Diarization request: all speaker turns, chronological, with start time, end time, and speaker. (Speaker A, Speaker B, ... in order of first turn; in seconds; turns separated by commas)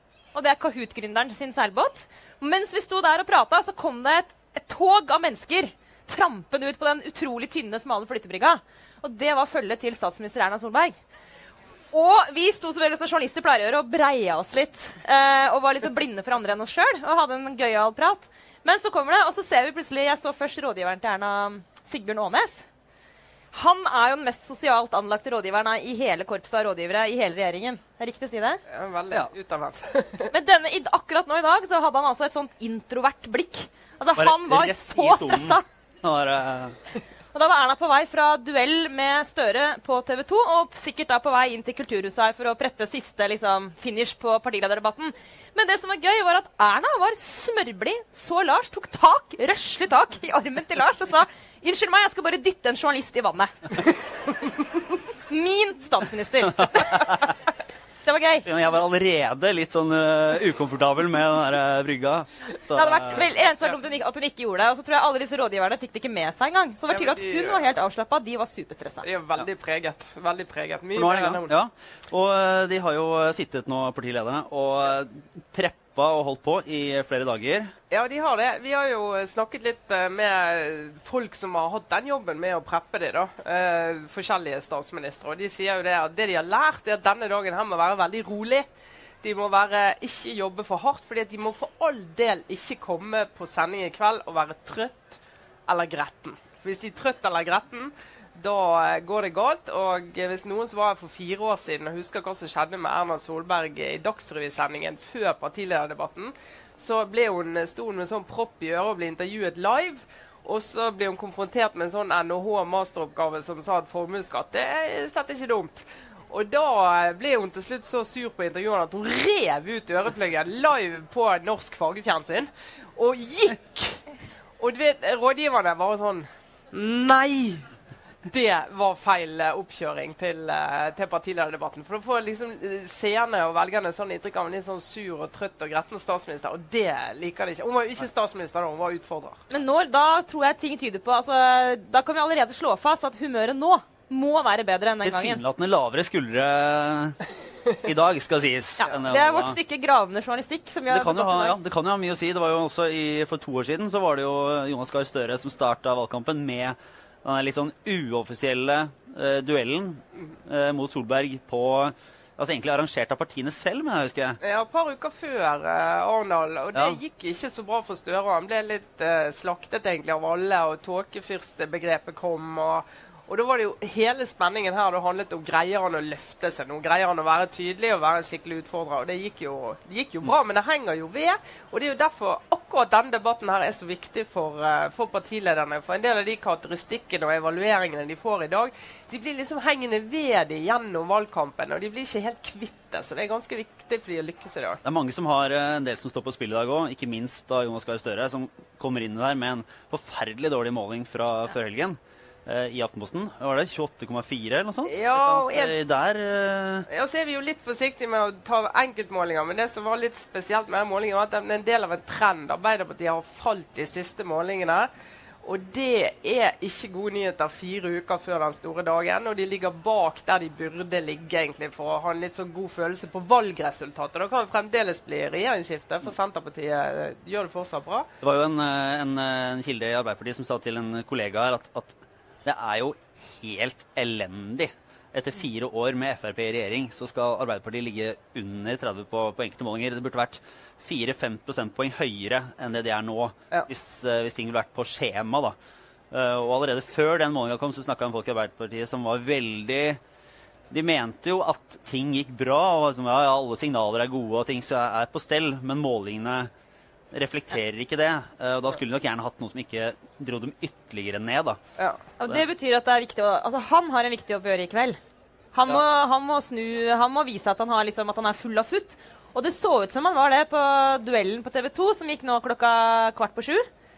Speaker A: 0.3-10.9, Speaker A: 11.9-22.6, Speaker A: 23.5-28.6, Speaker B: 28.7-30.3, Speaker A: 30.3-35.6, Speaker C: 34.1-36.8, Speaker A: 37.3-53.9, Speaker A: 55.3-57.4, Speaker A: 58.0-58.5, Speaker C: 58.4-63.3, Speaker A: 62.7-69.1, Speaker B: 63.4-63.8, Speaker B: 66.9-67.7, Speaker B: 69.0-71.5, Speaker C: 70.9-77.7, Speaker B: 77.9-88.6, Speaker B: 89.2-127.7, Speaker B: 128.2-139.4, Speaker A: 139.5-145.4, Speaker C: 145.0-147.2, Speaker C: 147.8-149.6, Speaker A: 149.0-151.6, Speaker C: 150.9-164.4, Speaker B: 164.4-194.8, Speaker C: 194.8-206.9, Speaker B: 204.8-205.8, Speaker B: 206.9-214.9, Speaker B: 215.4-228.1, Speaker C: 228.2-245.5, Speaker C: 246.1-250.0, Speaker C: 250.7-256.5, Speaker C: 257.1-261.6, Speaker B: 261.8-262.0, Speaker A: 262.2-265.0, Speaker A: 265.5-273.6